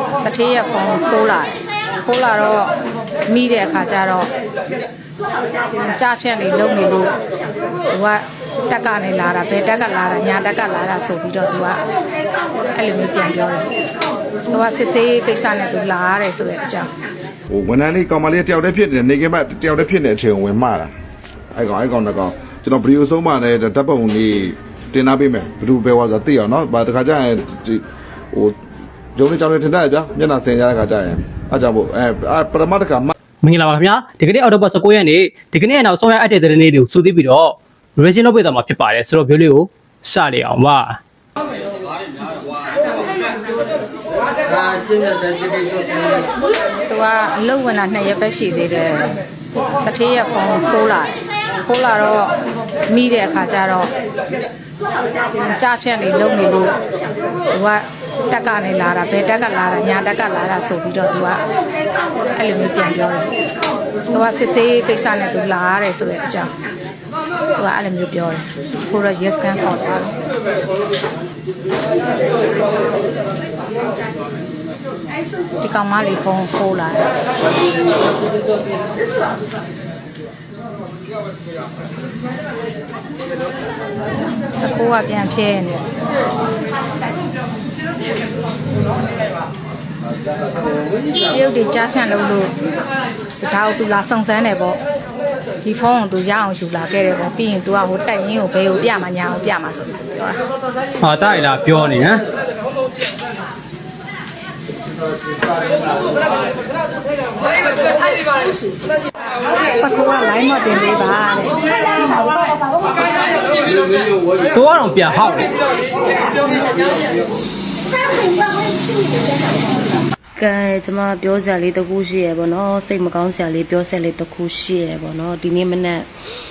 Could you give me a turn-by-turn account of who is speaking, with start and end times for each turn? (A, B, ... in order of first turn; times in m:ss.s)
0:00.2-0:02.7 A
0:03.3-0:04.3 A
0:05.8-0:07.1 A
0:07.9-0:11.8 A
0:12.7-0:13.7 A
0:14.5-0:16.9 A
0:17.5-0:20.9 B
0:21.5-0:28.6 B
0:29.2-0:33.1 B
0:33.4-0:41.0 C
0:46.9-0:49.1 A
0:49.8-0:52.4 A
0:52.9-0:53.9 A
0:55.4-0:56.8 A
0:57.5-1:01.4 A
1:02.4-1:03.3 A
1:04.1-1:06.5 A
1:07.6-1:10.1 A
1:15.6-1:17.1 A
1:24.6-1:25.9 A
1:31.3-1:32.5 A
1:33.4-1:34.8 A
1:35.6-1:40.4 A
1:41.0-1:42.2 C
1:49.8-1:51.6 A
1:54.5-1:55.5 C
2:00.4-2:06.1 D